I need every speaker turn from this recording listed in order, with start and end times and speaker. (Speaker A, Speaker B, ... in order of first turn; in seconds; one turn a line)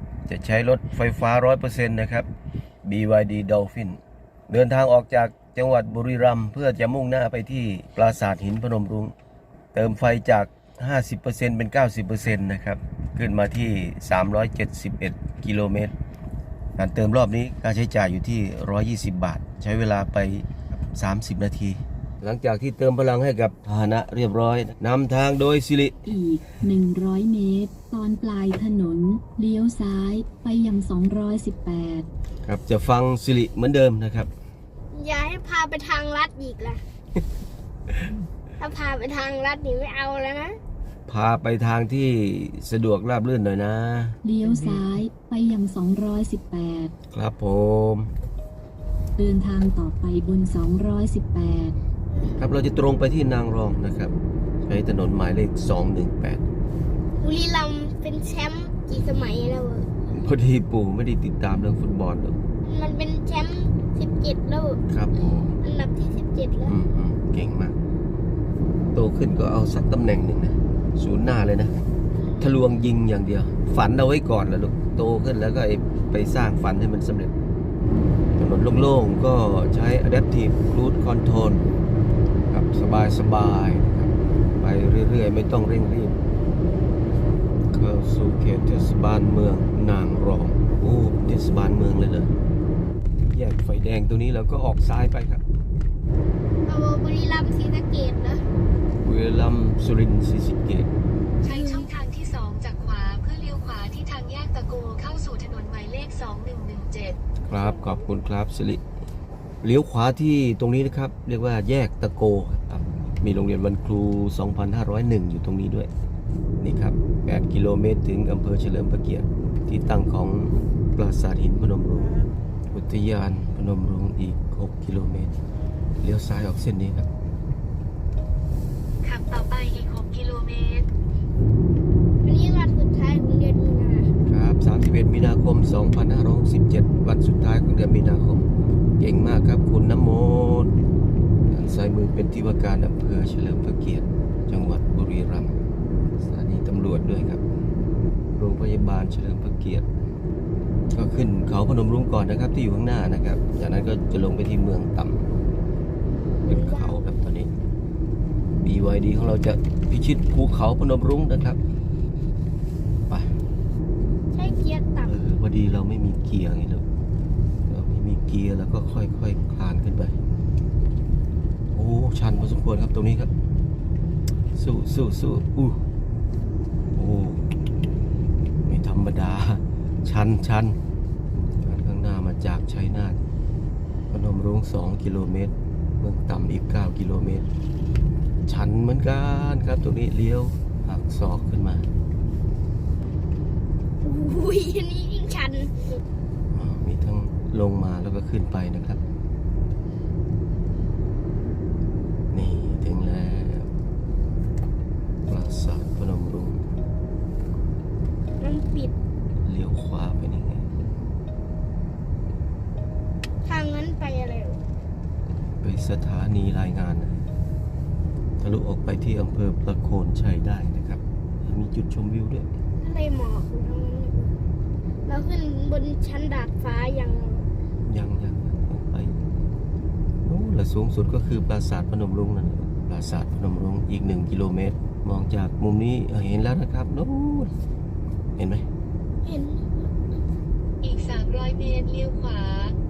Speaker A: 0.3-2.3
Speaker A: 2.8-9.1
Speaker A: 9.7-15.9
Speaker A: 16.8-25.9
Speaker B: 26.0-32.1
Speaker A: 32.4-34.3
Speaker C: 34.9-36.8
Speaker C: 38.6-40.6
Speaker A: 41.1-44.2
Speaker B: 44.2-46.9
Speaker A: 47.1-48.1
Speaker B: 49.2-51.8
Speaker C: 52.1-52.4
Speaker A: 52.4-54.1
Speaker A: 54.6-56.4
Speaker C: 57.2-59.9
Speaker A: 60.1-62.4
Speaker C: 62.6-64.8
Speaker A: 64.9-65.6
Speaker C: 65.6-66.8
Speaker A: 66.6-67.8
Speaker A: 68.9-71.7
Speaker A: 72.4-77.3
Speaker A: 78.4-81.7
Speaker A: 82.5-86.2
Speaker A: 87.7-92.3
Speaker A: 93.3-95.4
Speaker C: 96.7-98.4
Speaker A: 99.0-100.9
Speaker D: 101.4-107.2
Speaker C: 101.5-101.9
Speaker A: 107.4-108.8
Speaker A: 109.6-115.9
Speaker A: 116.6-122.1
Speaker A: 122.7-125.3
Speaker A: 126.0-127.1
Speaker D: 129.0-130.9
Speaker C: 132.2-134.1
Speaker A: 134.2-138.5
Speaker A: 139.0-140.8
Speaker A: 141.5-145.6
Speaker A: 146.2-147.4
Speaker A: 148.3-149.8
Speaker A: 150.9-155.2
Speaker C: 156.4-157.0
Speaker A: 156.4-157.5
Speaker A: 158.6-161.6
Speaker A: 163.1-163.3
Speaker C: 164.3-165.2
Speaker A: 165.0-166.8
Speaker A: 167.7-170.2
Speaker A: 171.7-173.3
Speaker A: 174.5-175.8
Speaker A: 176.9-177.4
Speaker A: 178.6-180.8
Speaker A: 181.6-183.2
Speaker A: 184.1-187.4
Speaker A: 188.5-191.9
Speaker C: 194.0-196.0
Speaker A: 196.5-199.0
Speaker A: 202.3-203.7
Speaker A: 205.3-206.6
Speaker C: 208.4-208.9
Speaker A: 209.4-210.7
Speaker C: 213.4-214.6
Speaker A: 215.6-217.2
Speaker A: 218.4-222.5
Speaker C: 222.8-224.4
Speaker C: 225.1-227.5
Speaker A: 227.8-229.1
Speaker A: 230.2-237.5
Speaker A: 238.3-238.6
Speaker C: 239.2-239.6
Speaker D: 240.8-242.8